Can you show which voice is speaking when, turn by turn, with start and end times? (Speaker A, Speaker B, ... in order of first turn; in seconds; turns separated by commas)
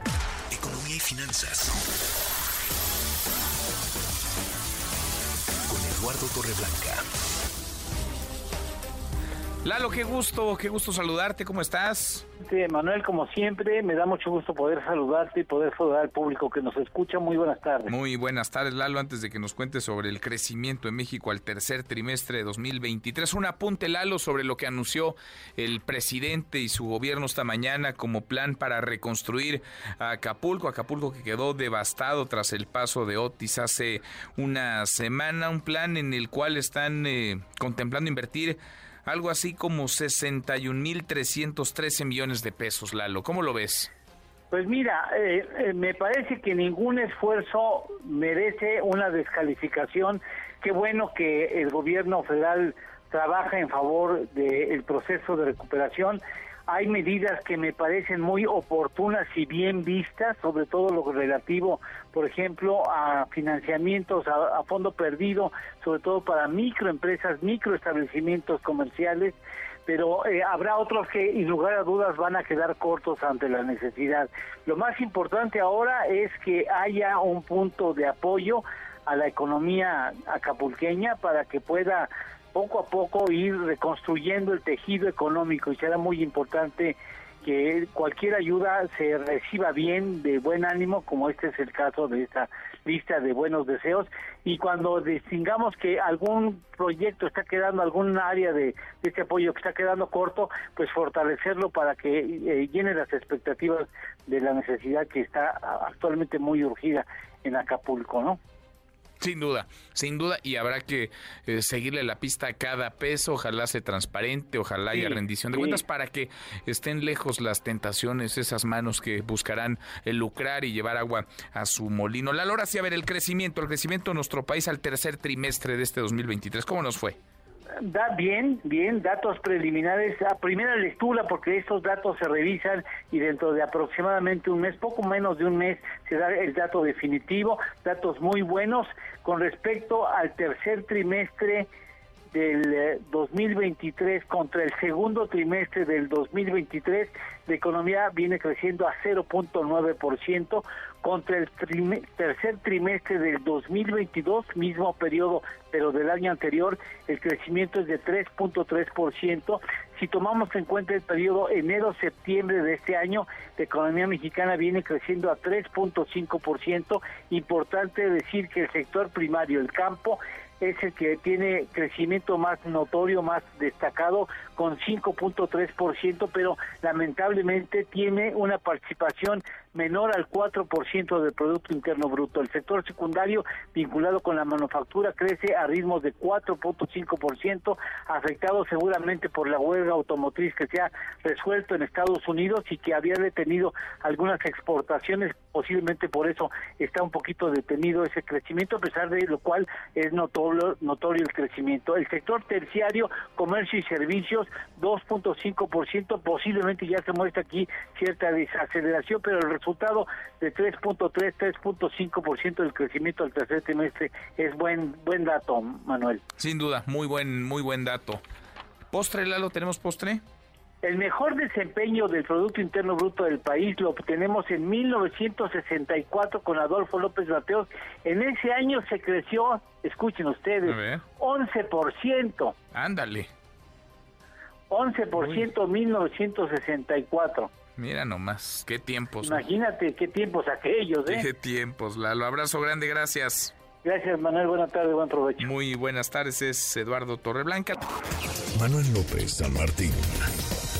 Speaker A: 0.5-1.7, Speaker A: 5.7-7.0, Speaker B: 9.6-12.2, Speaker C: 12.4-17.9, Speaker B: 17.9-43.9, Speaker C: 44.5-108.4, Speaker B: 109.2-127.2, Speaker C: 114.9-115.8, Speaker C: 127.8-141.7, Speaker C: 142.3-216.2, Speaker B: 216.4-218.2, Speaker B: 218.9-220.2, Speaker C: 220.8-232.6, Speaker B: 230.7-231.0, Speaker B: 232.7-233.3, Speaker C: 234.7-237.5, Speaker B: 235.2-235.4, Speaker B: 237.8-239.4, Speaker C: 239.2-241.3, Speaker B: 241.1-243.5, Speaker C: 243.8-245.5, Speaker B: 245.4-247.8, Speaker A: 248.5-250.3